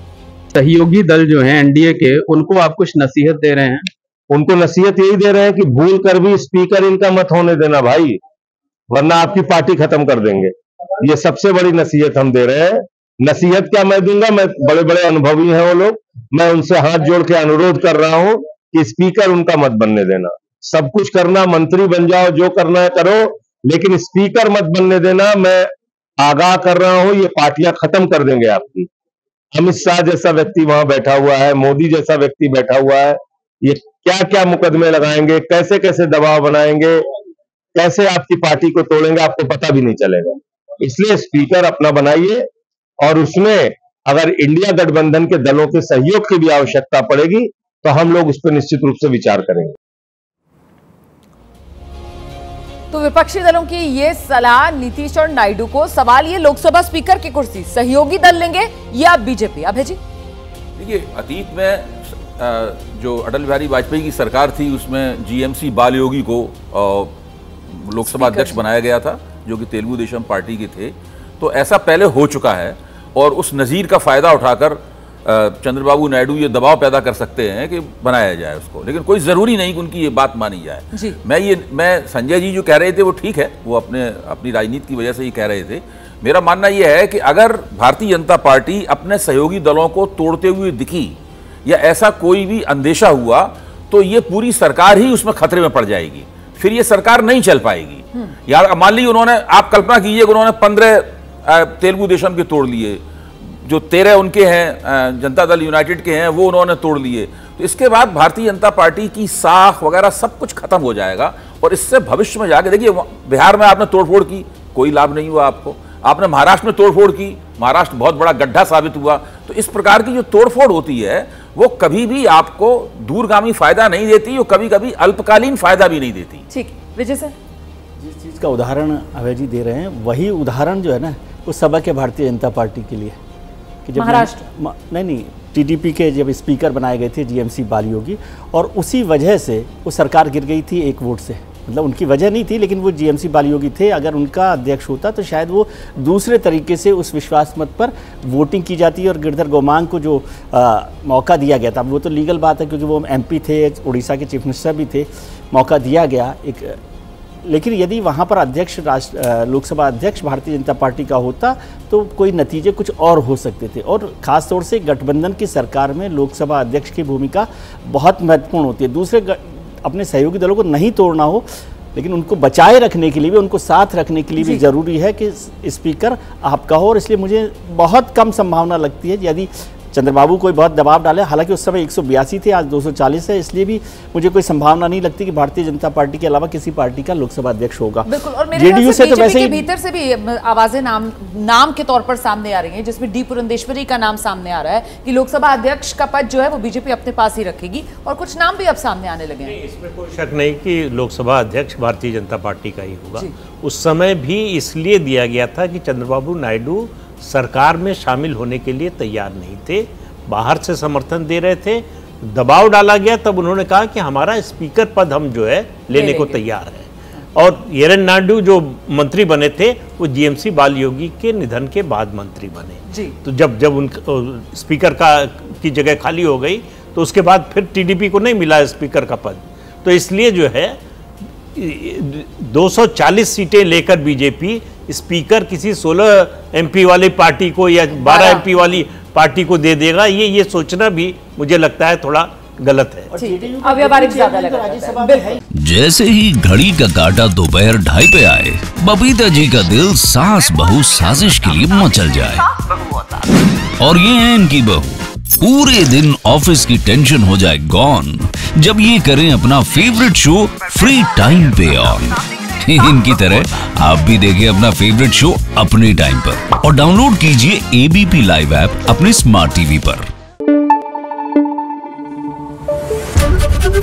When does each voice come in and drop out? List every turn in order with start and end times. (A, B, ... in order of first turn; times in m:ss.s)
0:00.5-0:03.9 A
0:04.3-0:08.2 B
0:08.9-0:25.7 B
0:26.2-0:28.9 B
0:29.5-0:37.0 B
0:37.7-0:42.4 B
0:43.0-0:49.7 B
0:52.9-1:00.0 C
1:00.8-1:07.1 D
1:07.7-1:43.0 D
1:08.0-1:08.6 C
1:43.6-2:06.4 D
2:06.5-2:07.3 C
2:08.0-2:13.2 E
2:13.8-2:36.8 E
2:14.0-2:14.4 C
2:37.4-3:09.6 E
3:08.0-3:19.6 C
3:19.5-3:50.8 F
3:35.9-3:36.4 C
3:42.9-3:43.1 C
3:51.5-4:03.1 F
3:58.0-3:58.4 C
4:03.1-4:05.4 E
4:03.2-4:05.4 C
4:05.6-4:12.4 G
4:13.8-4:30.0 G